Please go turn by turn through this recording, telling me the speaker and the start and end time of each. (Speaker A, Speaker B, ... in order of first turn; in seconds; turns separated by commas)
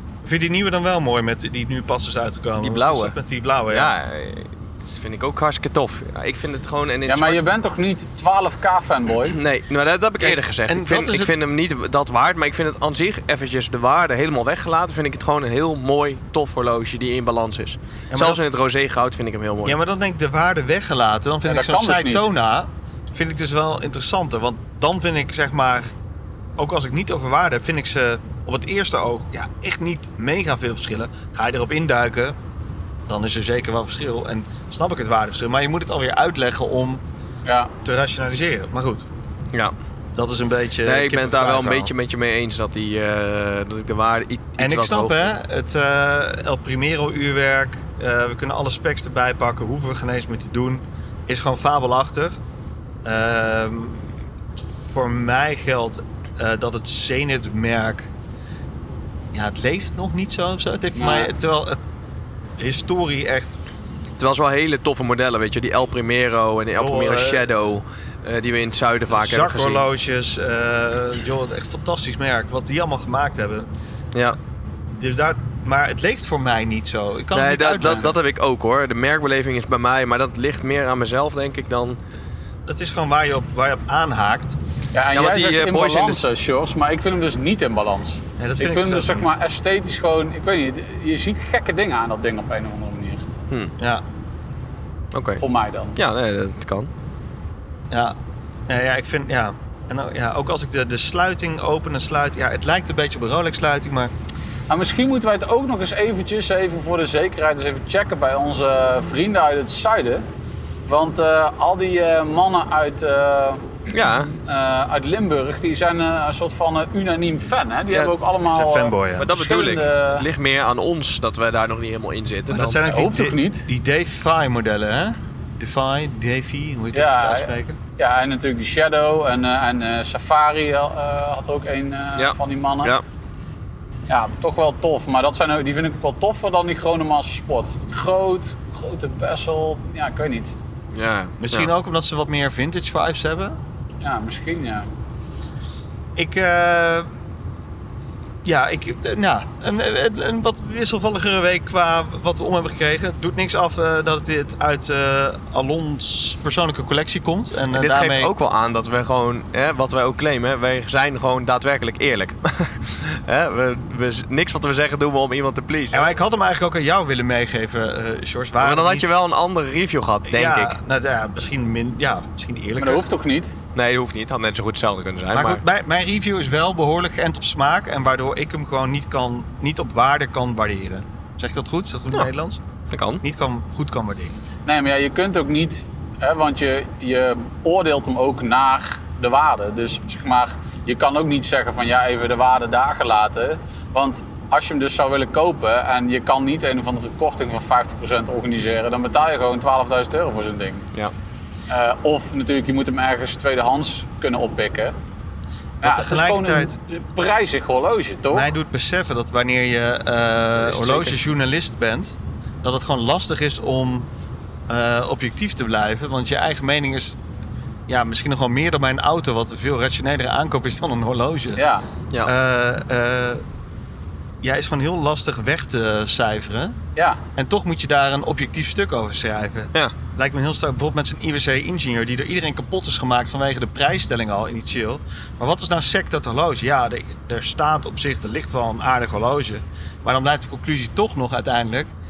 Speaker A: 0.2-3.9, Speaker B: 2.6-3.1, Speaker B: 3.7-7.4, Speaker C: 7.1-9.4, Speaker B: 9.3-19.8, Speaker A: 10.2-11.3, Speaker A: 18.1-18.4, Speaker A: 19.6-25.9, Speaker C: 21.5-22.3, Speaker A: 26.6-32.4, Speaker A: 33.1-37.0, Speaker C: 37.5-37.7, Speaker A: 37.8-39.0, Speaker A: 40.1-41.9, Speaker B: 40.8-45.3, Speaker A: 44.6-52.4, Speaker A: 53.0-54.2, Speaker A: 54.8-58.1, Speaker A: 59.3-61.8, Speaker C: 60.9-61.3, Speaker A: 62.6-63.6, Speaker B: 64.2-69.8, Speaker A: 66.8-67.5, Speaker A: 69.1-73.7, Speaker A: 75.0-78.1, Speaker B: 77.3-82.0, Speaker A: 82.7-84.6, Speaker C: 84.9-93.3, Speaker B: 85.1-86.3, Speaker A: 88.4-89.3, Speaker A: 93.8-94.0, Speaker B: 95.1-95.4, Speaker C: 95.4-96.0, Speaker B: 95.9-96.9, Speaker A: 98.7-104.1, Speaker C: 104.7-110.2, Speaker C: 110.9-113.6, Speaker B: 113.9-114.3, Speaker C: 114.2-120.2, Speaker A: 117.9-119.3, Speaker B: 119.2-122.8, Speaker A: 122.5-127.8, Speaker C: 122.9-123.7, Speaker C: 126.9-132.9, Speaker B: 132.2-133.0, Speaker C: 134.1-140.5, Speaker B: 140.9-141.7, Speaker A: 141.4-143.6, Speaker C: 144.0-144.9, Speaker A: 146.2-147.1, Speaker A: 148.4-158.3, Speaker B: 157.7-166.1, Speaker A: 165.9-169.1, Speaker B: 168.6-170.8, Speaker A: 170.3-173.1, Speaker C: 172.8-173.5, Speaker B: 173.7-175.6, Speaker A: 175.3-182.6, Speaker B: 182.9-183.2, Speaker A: 183.2-184.3, Speaker C: 184.6-200.9, Speaker C: 201.7-204.9, Speaker C: 205.8-208.5, Speaker A: 205.8-206.8, Speaker A: 208.3-214.1, Speaker B: 210.6-211.2, Speaker A: 214.7-217.2, Speaker A: 217.9-221.6, Speaker C: 221.6-221.8, Speaker A: 222.2-223.4, Speaker A: 224.4-226.8, Speaker C: 226.9-227.2, Speaker A: 227.4-241.9